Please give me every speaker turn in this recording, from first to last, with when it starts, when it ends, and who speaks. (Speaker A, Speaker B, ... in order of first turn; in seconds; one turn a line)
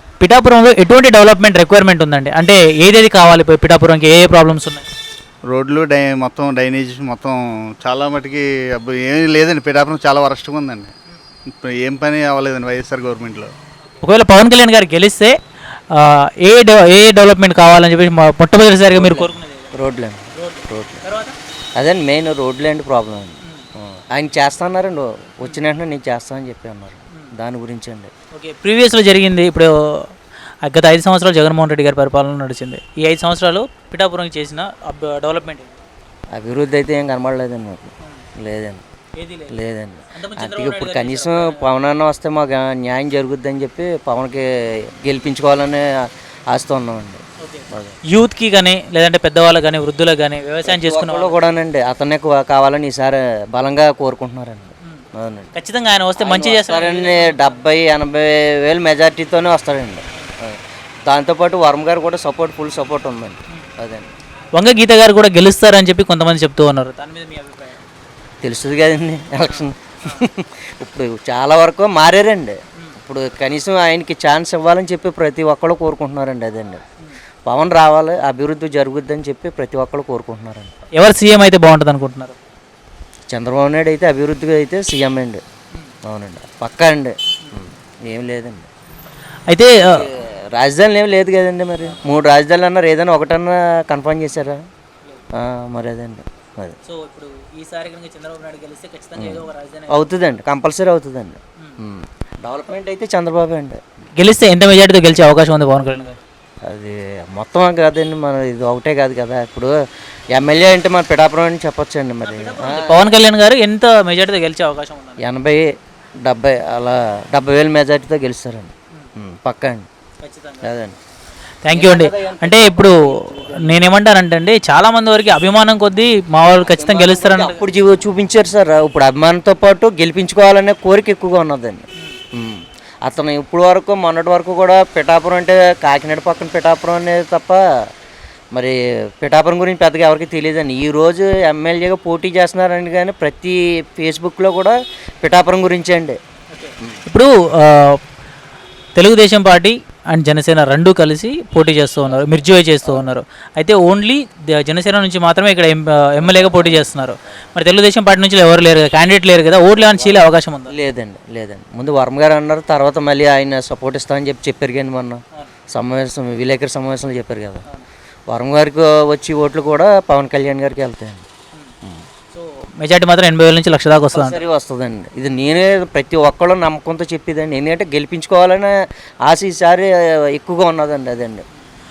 Speaker A: 0.2-4.9
Speaker B: 5.5-10.9
Speaker B: 11.6-13.5
Speaker A: 14.0-15.3
Speaker A: 15.9-19.7
Speaker C: 18.9-21.0
Speaker A: 20.3-21.4
Speaker C: 21.8-23.4
Speaker C: 24.1-28.1
Speaker A: 28.3-35.8
Speaker C: 36.3-38.8
Speaker A: 39.1-39.5
Speaker C: 39.5-44.5
Speaker A: 40.1-41.6
Speaker C: 45.0-45.8
Speaker C: 46.5-47.2
Speaker A: 47.4-51.3
Speaker C: 50.6-55.5
Speaker A: 55.5-57.6
Speaker C: 56.2-64.1
Speaker A: 64.5-67.8
Speaker C: 68.4-76.8
Speaker C: 77.5-80.7
Speaker A: 80.9-82.3
Speaker C: 83.3-85.4
Speaker C: 86.0-88.7
Speaker A: 89.5-90.0
Speaker C: 89.8-94.6
Speaker C: 95.4-96.8
Speaker A: 96.8-100.0
Speaker C: 99.2-103.8
Speaker A: 104.2-106.2
Speaker C: 106.7-109.7
Speaker C: 110.3-113.0
Speaker A: 112.3-115.2
Speaker C: 115.2-115.6
Speaker C: 116.2-119.9
Speaker A: 120.2-120.7
Speaker C: 120.6-121.0
Speaker A: 121.6-127.6
Speaker C: 121.7-123.8
Speaker C: 126.6-131.8
Speaker C: 132.3-137.9
Speaker C: 138.5-146.2
Speaker A: 146.5-148.0
Speaker A: 148.9-160.7
Speaker C: 152.1-153.1
Speaker C: 156.2-157.1
Speaker C: 159.7-167.6
Speaker C: 168.3-171.2
Speaker A: 172.3-174.4
Speaker C: 174.1-178.7
Speaker C: 179.2-181.4